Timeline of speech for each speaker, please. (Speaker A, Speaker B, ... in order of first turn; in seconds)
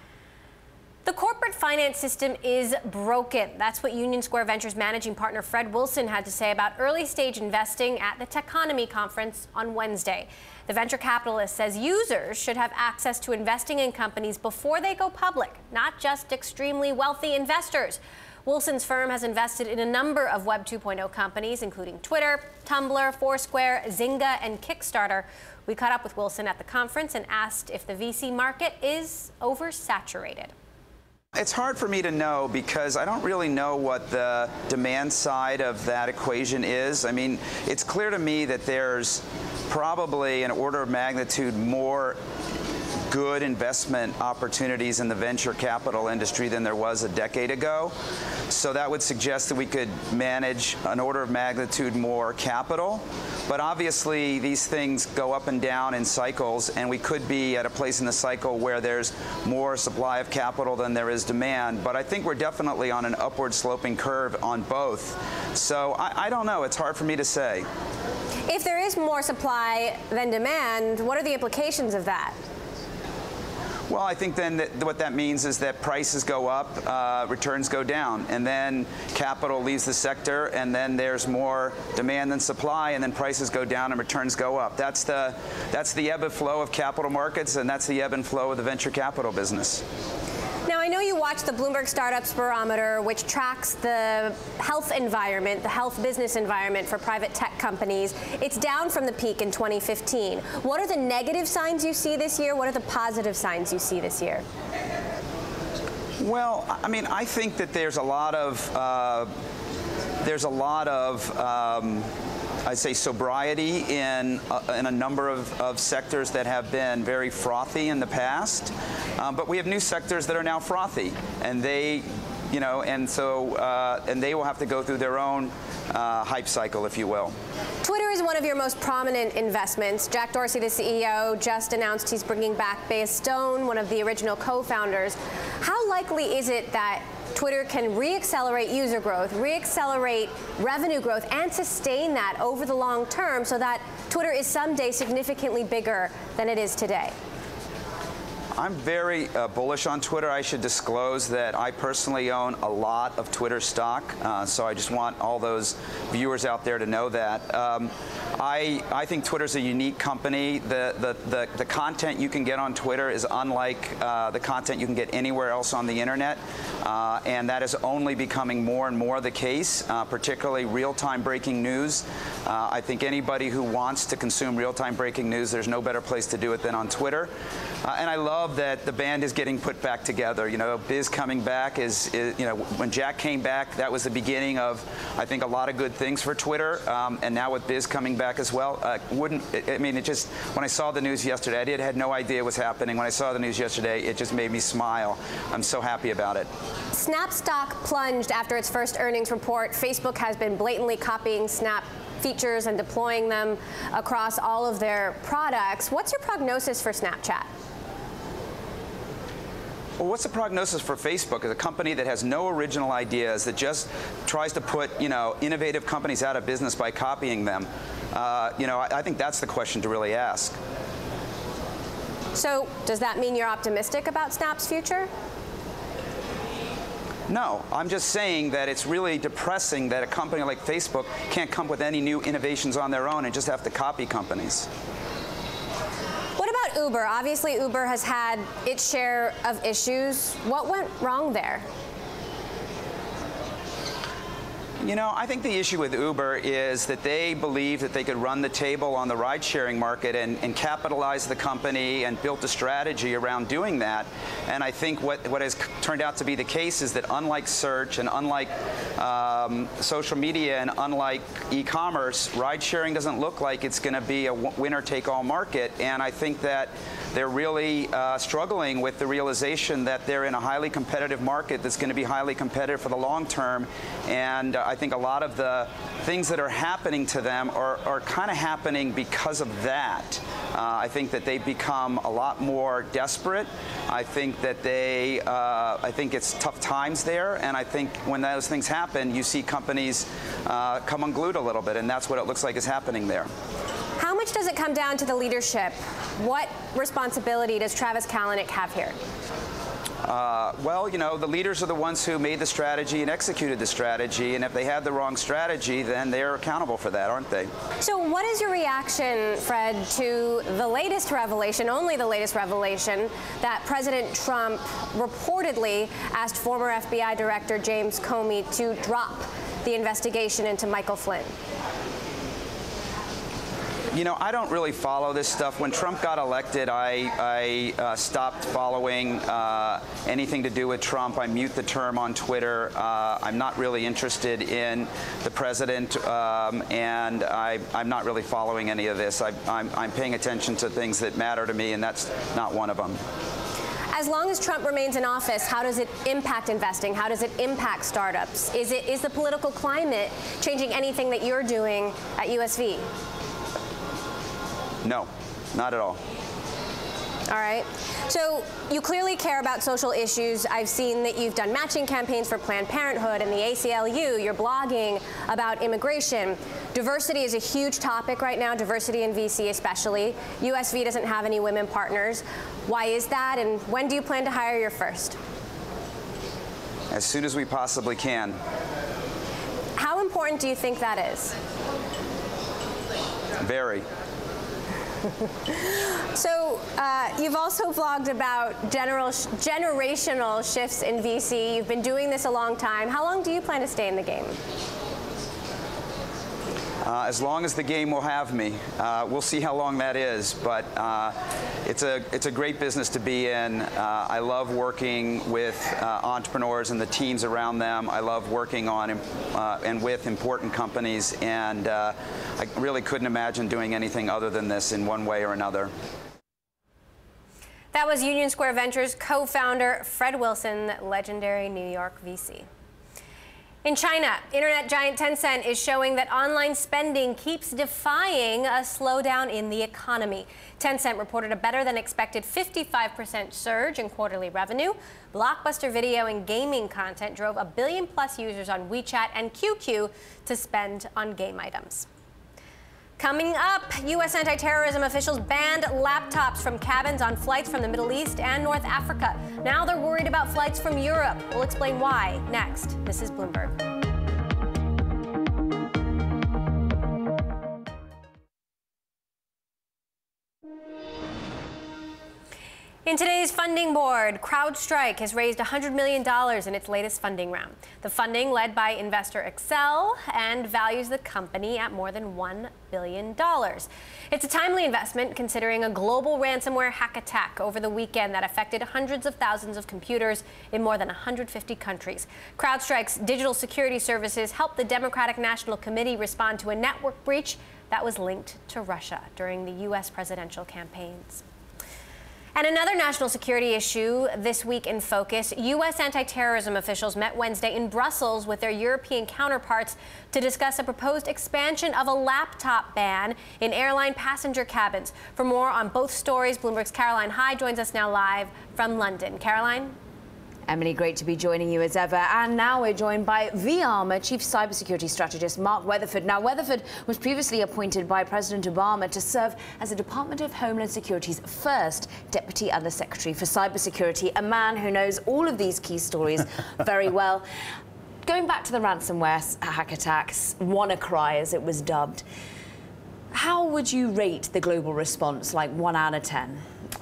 Speaker A: 1.1-30.5, 68.5-72.4, 90.7-104.4, 127.8-147.1, 196.9-207.5, 222.3-225.1, 236.4-241.7, 294.0-299.0, 307.8-321.4, 343.9-352.9, 357.3-375.2, 379.8-381.4, 385.5-394.4, 417.7-422.5, 423.6-441.9, 443.0-453.6, 462.9-491.2, 492.4-509.8
Speaker B: 31.4-42.2, 43.1-47.9, 48.5-67.7, 73.9-89.8, 106.2-109.3, 110.2-112.1, 112.7-127.3, 148.6-177.3, 177.8-196.5, 210.0-220.6, 227.3-234.7, 244.8-293.3, 300.0-307.5, 323.9-343.0, 354.8-356.0, 376.9-378.4, 383.4-383.9, 396.8-415.7
Speaker C: 510.5-527.2, 528.0-532.0, 533.1-536.5